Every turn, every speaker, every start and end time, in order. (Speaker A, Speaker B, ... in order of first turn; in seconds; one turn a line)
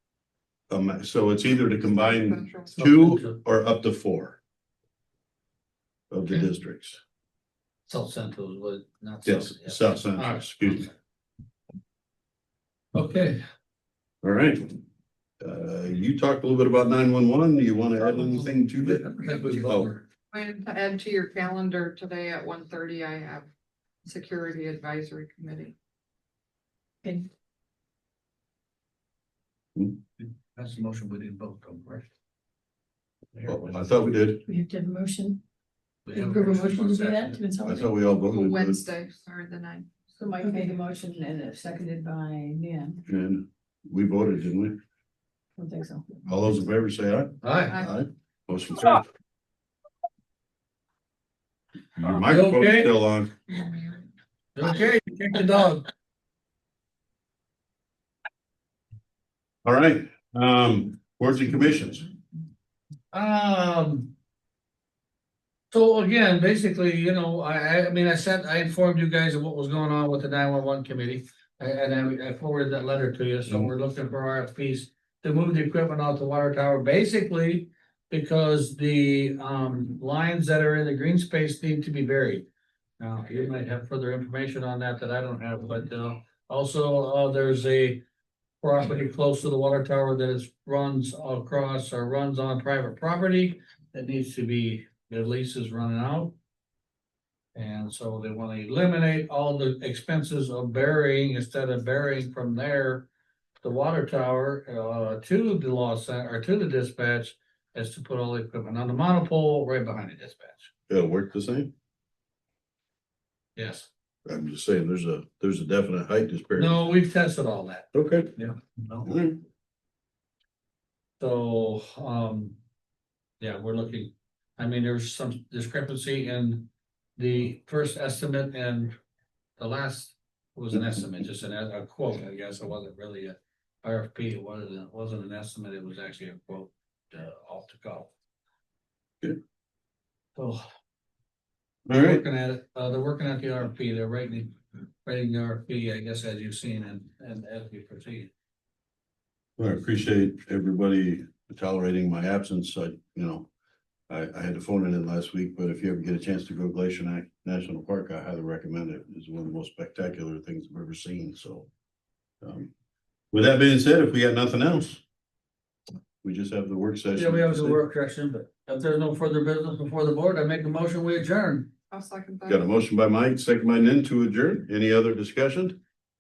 Speaker A: 0.7-4.4
Speaker B: 1.8-2.9
Speaker C: 2.8-3.4
Speaker A: 6.1-7.0
Speaker C: 7.9-10.9
Speaker A: 9.2-10.9
Speaker C: 12.9-13.4
Speaker A: 14.2-14.8
Speaker A: 15.4-19.9
Speaker C: 18.4-20.0
Speaker B: 20.3-23.5
Speaker B: 24.0-25.8
Speaker C: 30.2-32.1
Speaker C: 33.3-34.0
Speaker A: 33.5-34.4
Speaker D: 34.5-35.4
Speaker C: 36.0-37.4
Speaker D: 36.2-37.9
Speaker A: 37.6-38.8
Speaker B: 38.2-39.9
Speaker D: 40.2-43.0
Speaker A: 43.1-44.8
Speaker D: 45.6-46.2
Speaker A: 46.3-49.0
Speaker C: 47.4-47.9
Speaker A: 52.0-53.3
Speaker C: 52.2-53.0
Speaker C: 54.5-55.9
Speaker A: 59.6-62.1
Speaker C: 63.1-64.1
Speaker C: 65.7-82.5
Speaker C: 83.0-88.0
Speaker C: 88.6-96.3
Speaker C: 97.5-103.1
Speaker C: 103.6-110.7
Speaker A: 110.9-111.7
Speaker C: 113.6-113.9
Speaker A: 114.3-116.8
Speaker C: 116.5-119.1
Speaker A: 117.9-118.3
Speaker A: 119.0-119.4
Speaker C: 121.2-122.6
Speaker C: 123.4-128.9
Speaker C: 129.6-138.1
Speaker C: 140.3-140.6
Speaker A: 141.9-142.2
Speaker C: 141.9-148.3
Speaker A: 149.6-153.5
Speaker A: 154.1-161.7
Speaker A: 162.4-162.7
Speaker A: 163.3-165.0
Speaker A: 166.2-167.8
Speaker C: 167.1-171.7
Speaker B: 171.9-172.6
Speaker A: 172.5-175.8